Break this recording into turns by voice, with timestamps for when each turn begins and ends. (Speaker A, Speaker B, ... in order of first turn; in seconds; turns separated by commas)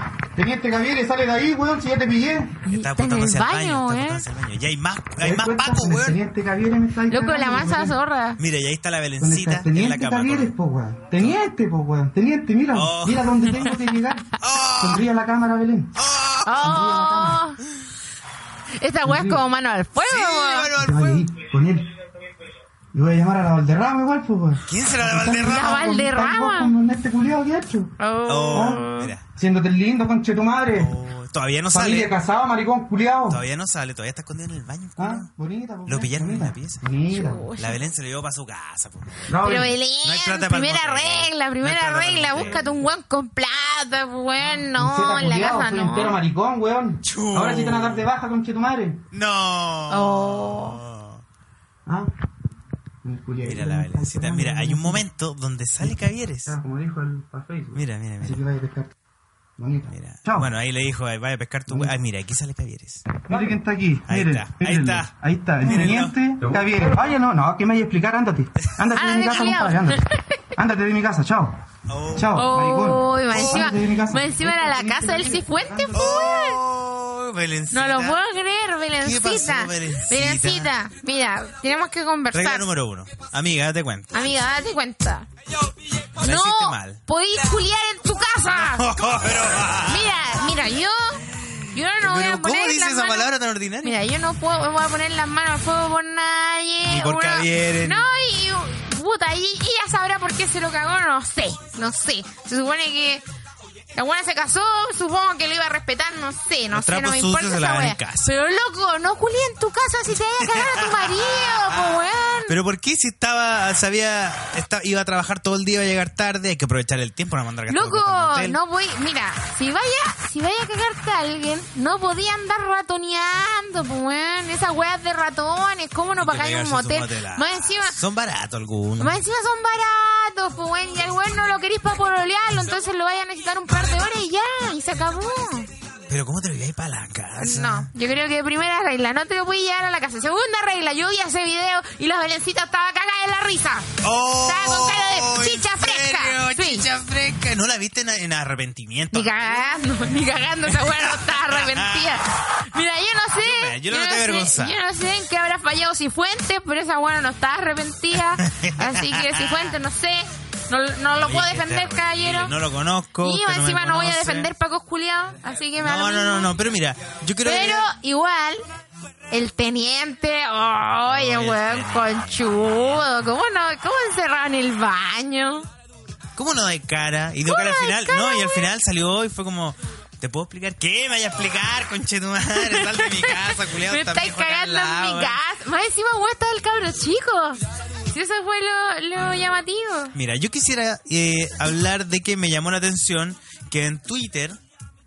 Speaker A: 0.3-2.6, Speaker B: 2.6-4.2, Speaker C: 2.7-6.2, Speaker A: 5.2-7.9, Speaker B: 7.1-8.4, Speaker C: 8.4-10.5, Speaker A: 9.2-15.9, Speaker C: 12.7-13.6, Speaker C: 14.4-15.0, Speaker C: 15.9-16.9, Speaker B: 16.4-17.6, Speaker A: 16.6-17.4, Speaker B: 18.8-20.7, Speaker A: 19.0-19.4, Speaker C: 20.0-21.3, Speaker A: 20.8-21.9, Speaker A: 22.9-27.9, Speaker C: 24.7-25.8, Speaker B: 25.3-26.7, Speaker B: 28.0-29.1, Speaker C: 28.3-29.2, Speaker A: 28.5-28.8, Speaker A: 29.4-30.9, Speaker C: 30.7-32.2, Speaker A: 31.7-33.4, Speaker C: 33.3-35.3, Speaker A: 35.0-37.5, Speaker C: 35.9-36.9, Speaker B: 37.1-37.8, Speaker C: 37.6-42.7, Speaker A: 39.3-39.7, Speaker B: 39.4-46.2, Speaker A: 44.6-49.0, Speaker C: 47.0-48.1, Speaker C: 49.1-51.2, Speaker B: 49.9-50.8, Speaker A: 53.0-55.0, Speaker C: 53.4-56.6, Speaker A: 56.5-58.9, Speaker C: 57.7-58.4, Speaker A: 59.6-60.5, Speaker C: 59.9-63.2, Speaker A: 63.2-70.0, Speaker C: 64.1-66.2, Speaker C: 68.6-68.9, Speaker B: 68.9-70.4, Speaker A: 70.5-71.6, Speaker C: 71.9-72.5, Speaker A: 72.1-76.2, Speaker B: 72.3-76.6, Speaker C: 73.3-73.7, Speaker C: 75.9-78.2, Speaker B: 77.7-82.6, Speaker C: 79.0-80.7, Speaker C: 82.3-84.3, Speaker B: 84.1-85.3, Speaker C: 86.2-87.0, Speaker B: 86.2-88.9, Speaker C: 88.5-90.1, Speaker B: 89.8-93.3, Speaker C: 91.4-94.0, Speaker B: 93.8-103.2, Speaker C: 96.8-98.1, Speaker B: 103.9-112.5, Speaker C: 106.7-108.3, Speaker C: 110.4-118.6, Speaker B: 117.7-128.0, Speaker C: 126.2-129.2, Speaker B: 129.0-135.7, Speaker C: 136.1-137.9, Speaker B: 137.4-143.9, Speaker C: 144.0-149.8, Speaker B: 144.4-146.9, Speaker B: 149.1-162.6, Speaker C: 150.7-152.2, Speaker C: 153.4-154.8, Speaker C: 158.2-159.8, Speaker C: 161.2-164.5, Speaker B: 163.2-166.6, Speaker C: 165.8-167.9, Speaker B: 167.4-168.6, Speaker B: 169.3-175.7, Speaker C: 171.1-173.2, Speaker C: 176.3-185.4, Speaker B: 177.4-178.7, Speaker B: 182.5-190.1, Speaker C: 190.1-194.6